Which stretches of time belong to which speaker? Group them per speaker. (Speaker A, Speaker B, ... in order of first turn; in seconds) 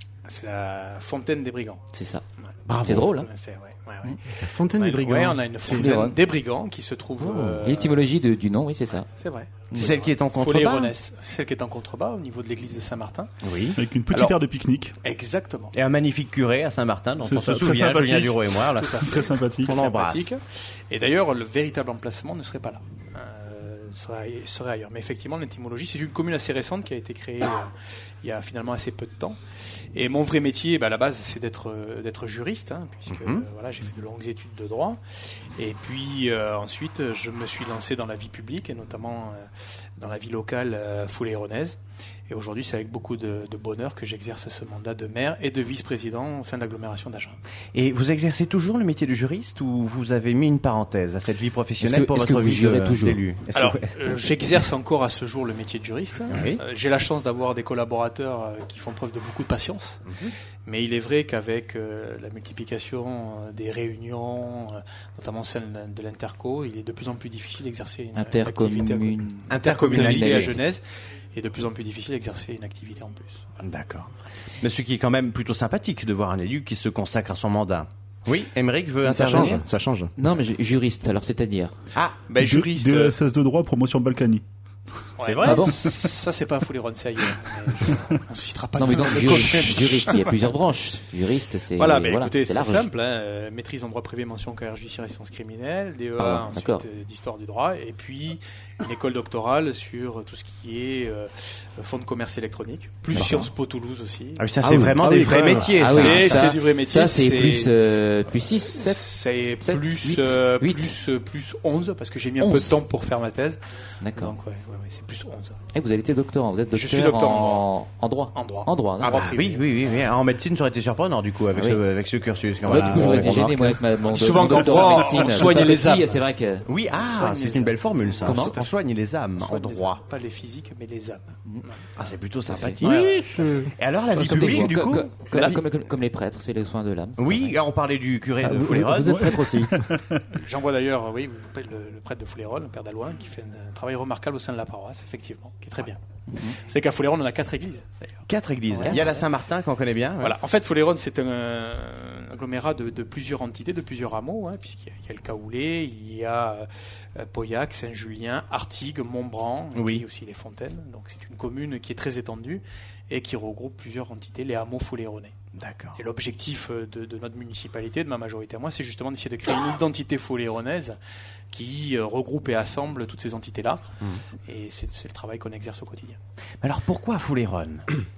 Speaker A: 0.2-1.8, 2.4-8.1, 9.1-13.3, 14.1-14.4, 15.0-15.7, 18.7-29.4, 29.9-35.0, 35.5-47.4, 53.5-60.0, 60.6-73.4, 82.2-83.2, 85.2-90.4, 91.8-104.5, 105.1-107.7, 108.8-115.6, 116.7-117.7, 118.3-119.6, 124.0-126.2, 126.9-128.7, 129.4-131.9, 132.8-133.2, 140.3-146.0, 146.5-149.2, 150.2-165.3, 166.0-171.0, 171.5-173.8, 174.4-176.2
Speaker B: 1.9-2.2, 2.9-3.3, 7.6-9.1, 51.8-53.2, 68.1-70.5, 80.2-81.7, 85.4-85.8, 88.8-92.9, 96.2-96.8, 104.6-104.9, 105.8-110.9, 112.4-112.7, 114.0-114.4, 115.7-119.2, 122.6-126.7, 128.2-128.5, 132.5-132.8, 134.2-137.5, 146.3-146.6
Speaker C: 2.7-3.0, 7.2-7.5, 9.7-10.9, 13.4-13.8, 15.7-19.1, 19.6-20.3, 33.1-33.4, 47.7-54.2, 56.3-56.6, 60.1-60.3, 69.5-70.6, 73.6-79.6, 85.2-85.6, 103.1-103.4, 104.4-106.5, 119.1-123.5, 126.7-130.0, 132.0-135.1, 137.2-139.3, 148.3-150.4, 159.7-160.0, 165.6-166.0, 176.6-177.9
Speaker D: 4.4-6.2, 79.0-80.1, 104.6-105.8, 122.7-123.7, 132.8-134.7, 138.4-139.8
Speaker E: 13.8-14.9, 17.2-18.4, 19.1-19.7, 82.4-84.4, 139.0-140.2